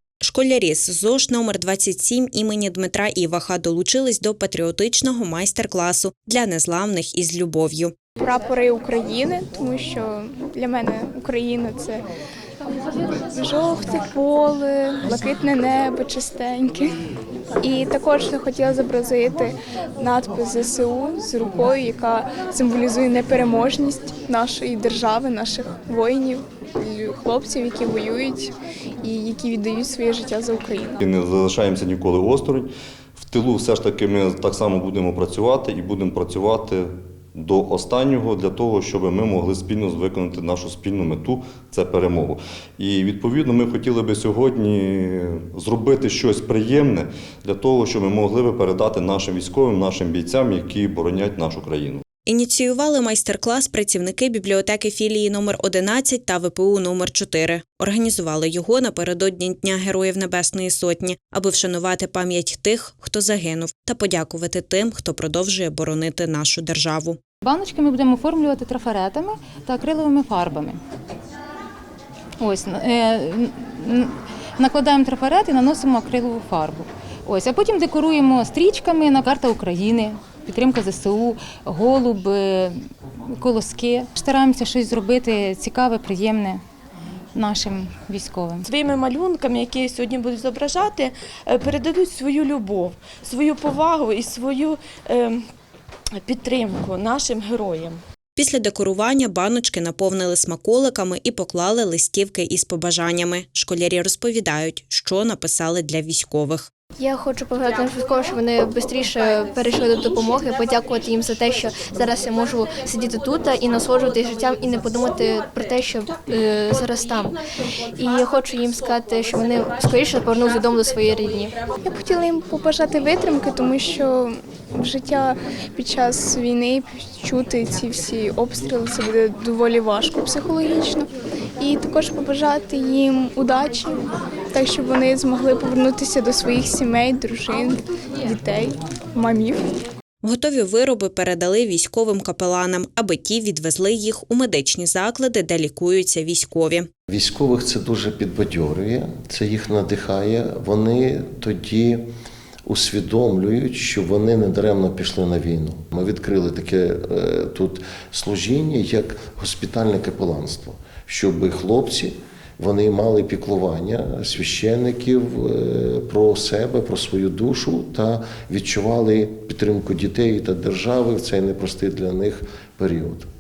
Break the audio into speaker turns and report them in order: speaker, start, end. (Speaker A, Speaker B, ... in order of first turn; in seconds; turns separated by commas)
Speaker A: 0.2-7.9, Speaker B: 8.2-12.0, Speaker B: 13.3-16.9, Speaker B: 17.6-28.5, Speaker B: 29.0-30.9, Speaker C: 31.0-52.0, Speaker A: 52.2-67.2, Speaker D: 67.4-70.8, Speaker D: 72.4-82.8, Speaker D: 83.3-86.6, Speaker D: 87.3-88.7, Speaker E: 88.6-95.4, Speaker E: 96.2-98.0, Speaker A: 98.4-106.7, Speaker F: 107.0-117.4, Speaker F: 118.0-121.5, Speaker B: 121.8-139.6, Speaker A: 140.2-146.9, Speaker G: 147.1-152.1, Speaker G: 152.7-173.2